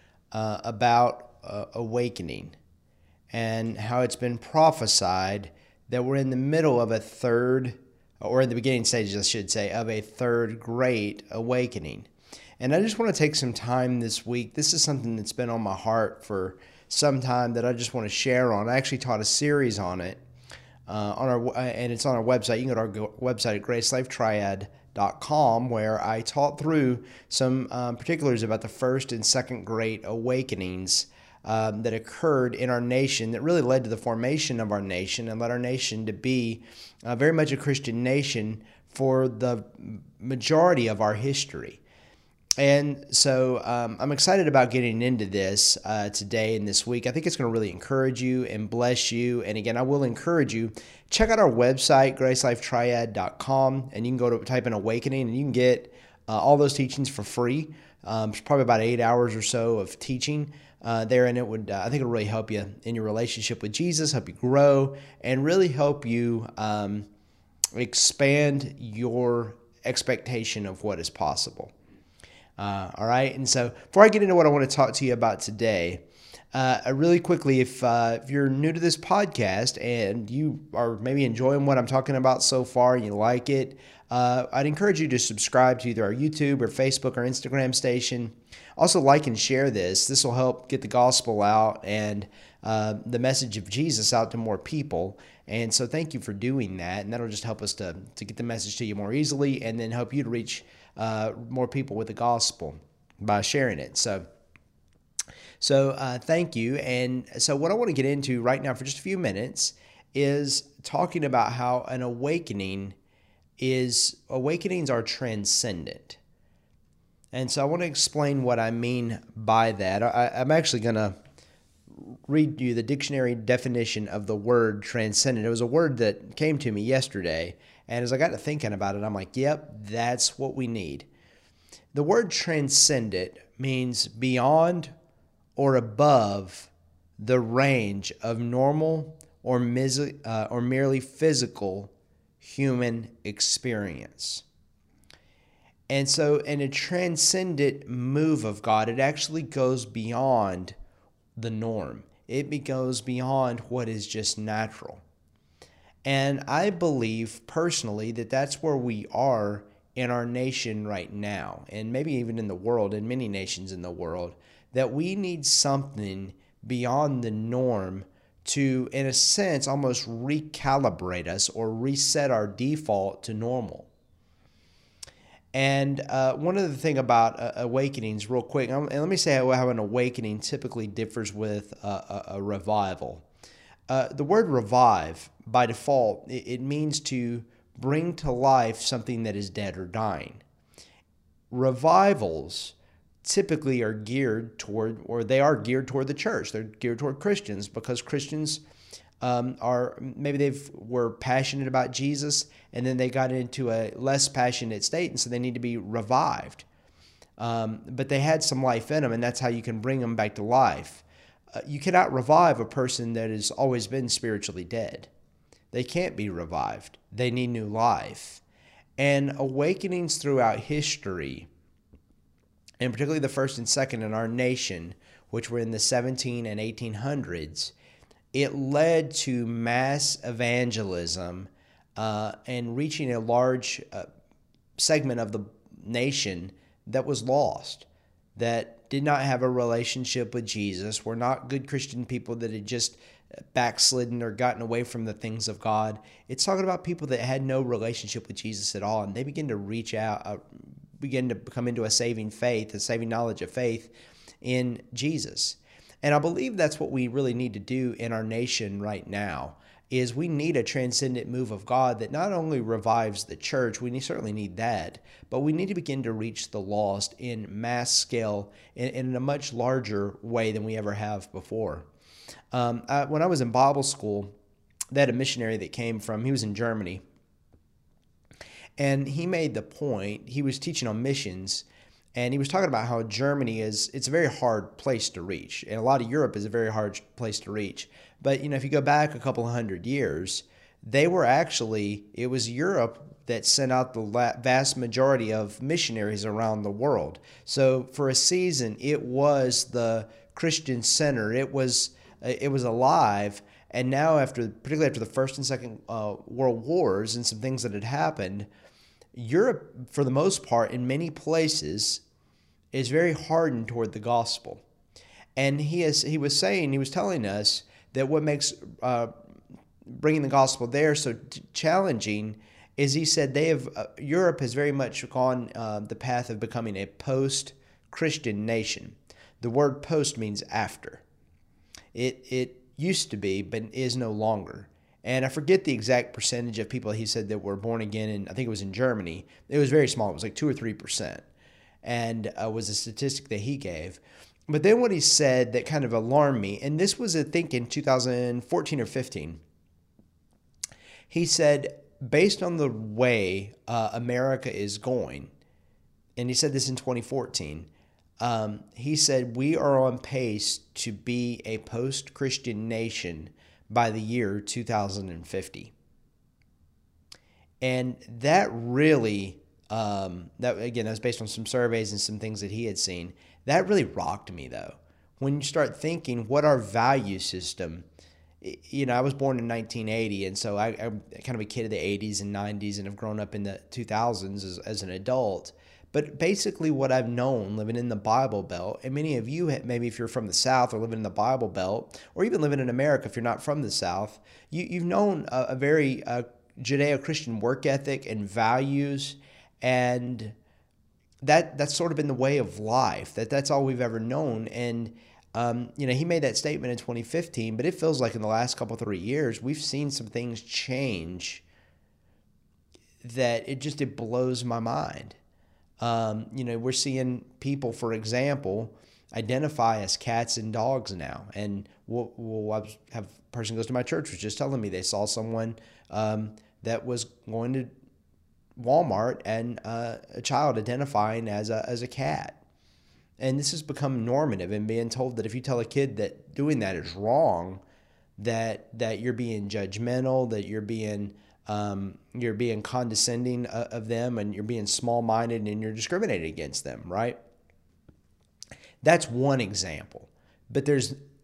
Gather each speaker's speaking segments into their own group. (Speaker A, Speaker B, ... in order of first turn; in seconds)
Speaker A: 0.3-2.5, 3.3-12.1, 12.6-20.2, 20.9-41.8, 42.6-67.1, 67.7-71.7, 72.6-104.2, 105.6-113.0, 113.6-116.2, 117.3-121.2, 122.0-131.1, 131.9-134.9, 135.6-144.4, 145.9-150.8, 151.4-155.0, 156.1-173.9, 175.5-183.2, 183.9-190.4, 191.5-198.6, 199.2-206.7, 207.4-211.1, 211.6-215.1, 215.7-218.4, 219.0-221.5, 222.8-227.7, 228.3-234.1, 234.8-243.0, 243.6-250.4, 251.0-271.9, 272.5-274.3, 274.9-277.0, 278.8-308.5, 309.1-312.0, 312.7-314.6, 315.4-319.1, 319.9-331.0, 331.9-341.2, 341.8-349.4, 351.1-355.3, 356.2-365.7, 367.6-377.9, 378.4-400.4, 401.2-411.4, 413.0-415.2, 415.8-427.7, 428.6-432.4, 433.2-437.6, 438.2-447.2, 448.8-451.0